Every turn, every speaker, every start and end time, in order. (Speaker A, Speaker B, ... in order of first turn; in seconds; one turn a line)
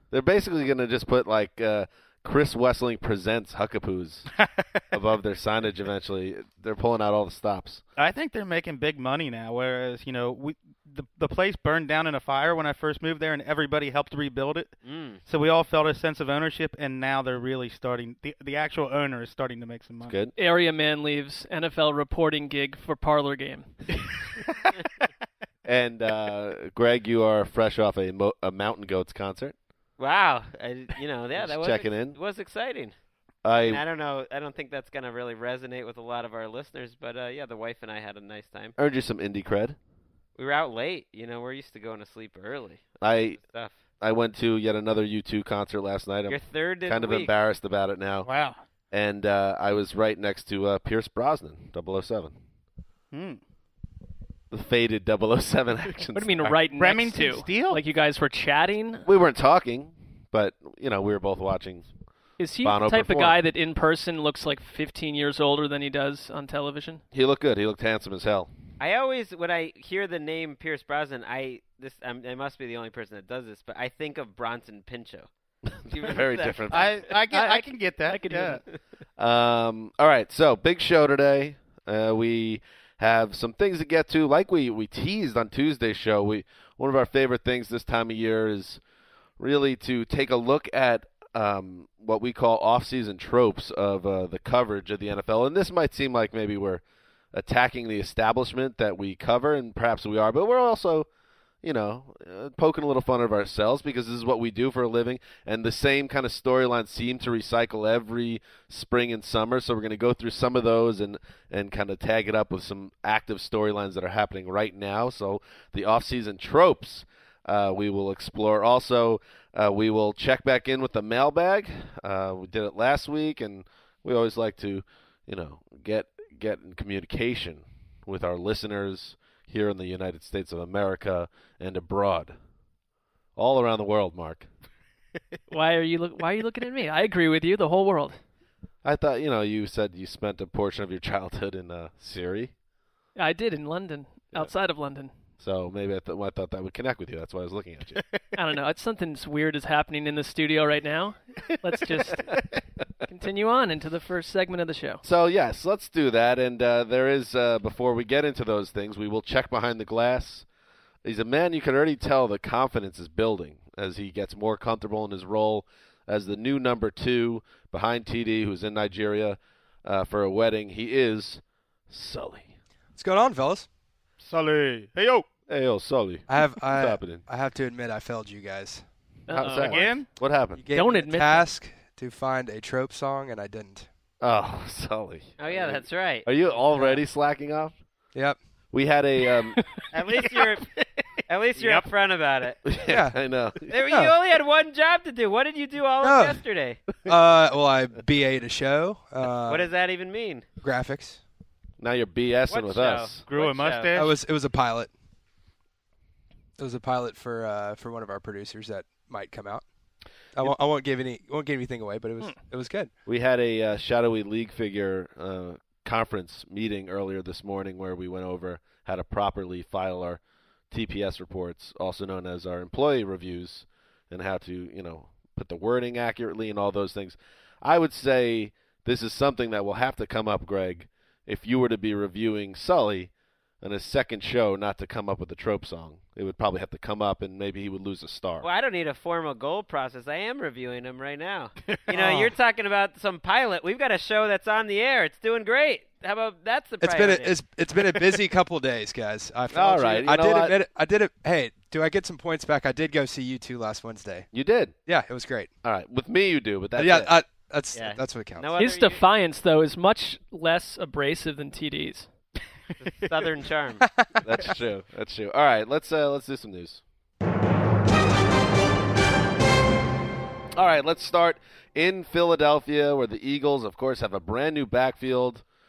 Speaker A: 0.1-4.3
Speaker B: 4.4-4.8
Speaker A: 4.9-7.8
Speaker B: 8.0-14.7
Speaker C: 14.8-15.2
Speaker B: 15.2-20.2
Speaker A: 20.0-20.3
Speaker D: 20.4-23.7
Speaker A: 25.6-29.6
Speaker C: 30.0-32.9
Speaker A: 31.4-32.2
Speaker A: 33.4-33.8
Speaker C: 33.6-38.8
Speaker A: 38.8-39.8
Speaker C: 40.4-43.8
Speaker A: 43.0-43.4
Speaker A: 44.0-48.3
Speaker C: 46.3-47.3
Speaker B: 48.2-48.6
Speaker A: 48.9-52.4
Speaker B: 53.1-53.4
Speaker A: 54.5-56.4
Speaker D: 56.1-59.1
Speaker B: 56.6-57.8
Speaker A: 59.0-61.9
Speaker D: 62.4-67.0
Speaker A: 62.6-63.4
Speaker A: 67.1-68.5
Speaker C: 68.8-75.3
Speaker A: 75.7-76.9
Speaker C: 75.9-76.8
Speaker B: 76.7-78.6
Speaker D: 77.3-78.6
Speaker A: 79.2-88.8
Speaker A: 89.4-96.8
Speaker A: 97.3-101.1
Speaker A: 101.6-132.3
Speaker A: 133.4-134.5
Speaker D: 135.5-138.2
Speaker A: 138.8-142.5
Speaker D: 143.2-145.1
Speaker A: 145.4-148.0
Speaker D: 148.3-152.3
Speaker D: 153.1-155.0
Speaker A: 155.0-160.4
Speaker A: 161.0-172.5
Speaker E: 173.0-173.7
Speaker B: 174.2-175.3
Speaker A: 175.5-177.2
Speaker E: 176.3-178.8
Speaker D: 179.3-179.9
Speaker A: 179.3-180.6
Speaker B: 179.6-180.1
Speaker E: 180.6-183.9
Speaker D: 180.7-181.5
Speaker A: 184.2-187.8
Speaker C: 185.4-186.3
Speaker A: 188.7-189.6
Speaker C: 189.9-190.7
Speaker C: 191.3-192.6
Speaker A: 192.6-193.7
Speaker E: 192.9-193.2
Speaker C: 193.7-196.8
Speaker E: 193.9-194.2
Speaker E: 196.0-196.4
Speaker E: 197.0-199.7
Speaker C: 199.5-200.4
Speaker E: 200.6-201.2
Speaker A: 201.8-203.2
Speaker C: 202.5-203.9
Speaker B: 203.3-204.2
Speaker E: 204.0-204.9
Speaker E: 206.6-209.7
Speaker E: 210.3-212.9
Speaker A: 213.1-233.1
Speaker A: 233.6-238.5
Speaker C: 238.4-247.4
Speaker B: 241.7-242.3
Speaker E: 246.8-254.3
Speaker A: 249.5-250.6
Speaker A: 254.3-254.7
Speaker E: 254.9-255.5
Speaker A: 255.6-257.1
Speaker E: 256.8-258.5
Speaker C: 257.7-259.0
Speaker D: 258.6-262.1
Speaker C: 262.8-263.9
Speaker A: 264.2-266.8
Speaker A: 270.6-275.4